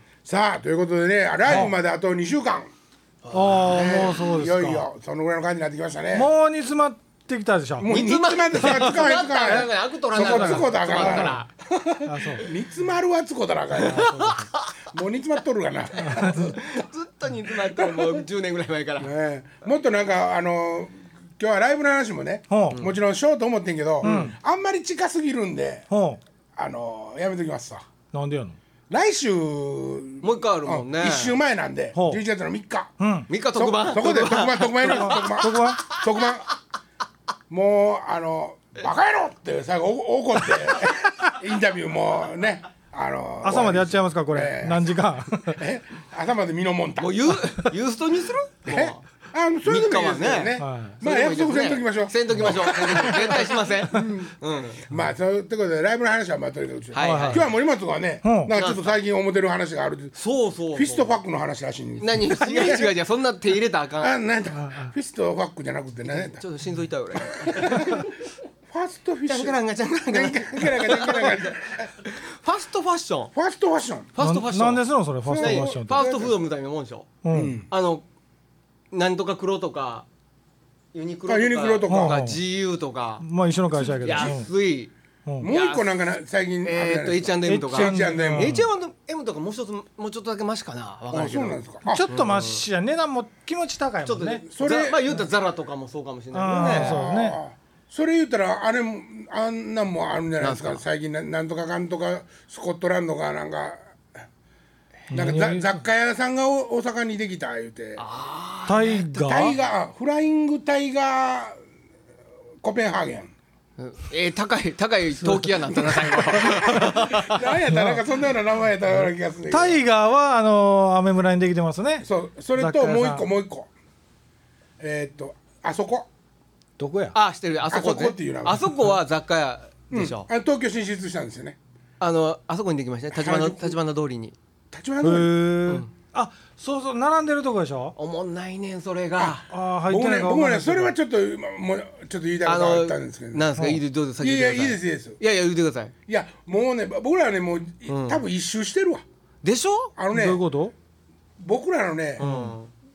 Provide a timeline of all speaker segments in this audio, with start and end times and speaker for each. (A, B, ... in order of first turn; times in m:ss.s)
0:00.2-0:02.7 A
0:01.5-0:01.7 B
0:03.2-0:04.2 C
0:03.3-0:04.8 B
0:03.7-0:06.3 A
0:06.1-0:07.9 B
0:07.8-0:14.4 A
0:07.9-0:11.5 C
0:10.2-0:11.4 B
0:12.0-0:12.5 B
0:13.8-0:14.8 C
0:13.8-0:14.5 B
0:14.9-0:16.6 A
0:16.1-0:19.1 C
0:17.5-0:18.3 A
0:19.0-0:25.9 A
0:22.5-0:22.8 B
0:24.0-0:24.3 C
0:24.0-0:24.4 B
0:25.9-0:26.2 B
0:26.6-0:27.9 A
0:28.1-0:28.6 B
0:28.9-0:32.9 A
0:30.2-0:31.4 C
0:31.9-0:32.2 B
0:33.0-0:33.3 B
0:33.3-0:36.0 C
0:33.5-0:36.5 A
0:34.8-0:36.0 B
0:37.5-0:44.9 A
0:43.4-0:45.6 B
0:45.4-0:47.4 A
0:47.0-0:49.0 C
0:48.7-1:00.1 A
0:49.6-0:54.8 C
0:50.6-0:51.0 B
0:56.9-0:57.4 C
0:57.0-0:57.5 B
0:58.2-0:58.5 B
0:58.5-0:58.9 C
1:00.1-1:01.2 C
1:00.7-1:02.9 A
1:02.0-1:04.2 C
1:04.0-1:06.4 A
1:04.6-1:04.9 B
1:06.1-1:08.1 C
1:07.2-1:08.1 A
1:08.7-1:11.9 A
1:09.2-1:13.3 C
1:13.3-1:14.1 A
1:14.1-1:14.8 C
1:14.2-1:16.0 B
1:15.2-1:16.4 A
1:15.3-1:17.1 C
1:17.2-1:17.6 B
1:17.3-1:17.7 A
1:17.7-1:18.0 C
1:18.9-1:20.1 C
1:20.9-1:23.2 C
1:21.3-1:22.2 A
1:21.9-1:22.4 B
1:23.2-1:24.5 B
1:24.0-1:25.9 C
1:24.0-1:24.4 A
1:25.2-1:25.5 B
1:25.4-1:28.6 A
1:26.6-1:32.6 C
1:27.4-1:28.7 B
1:31.1-1:32.1 A
1:31.8-1:34.4 B
1:34.0-1:37.0 C
1:34.5-1:35.0 A
1:36.3-1:37.4 B
1:36.5-1:43.8 A
1:40.4-1:40.8 C
1:45.1-1:45.8 B
1:45.1-1:48.0 A
1:48.0-1:49.0 C
1:48.7-1:49.6 B
1:49.0-1:51.6 A
1:52.6-1:53.3 A
1:53.8-1:57.5 C
1:55.2-1:56.8 B
1:55.8-1:59.8 A
1:57.6-1:58.1 B
1:58.9-2:03.3 B
2:02.0-2:03.7 A
2:04.8-2:06.1 A
2:06.8-2:07.2 B
2:07.1-2:10.3 C
2:07.7-2:08.7 A
2:09.9-2:11.6 A
2:12.0-2:14.4 C
2:13.1-2:13.8 A
2:14.7-2:15.3 A
2:15.0-2:17.9 B
2:18.0-2:19.4 C
2:19.5-2:20.9 B
2:19.9-2:23.5 A
2:22.4-2:25.9 C
2:24.2-2:25.2 A
2:26.1-2:29.0 A
2:27.9-2:28.2 C
2:29.4-2:29.9 C
2:30.0-2:30.4 A
2:30.1-2:30.7 B
2:31.4-2:32.2 A
2:32.2-2:32.7 C
2:32.2-2:32.6 B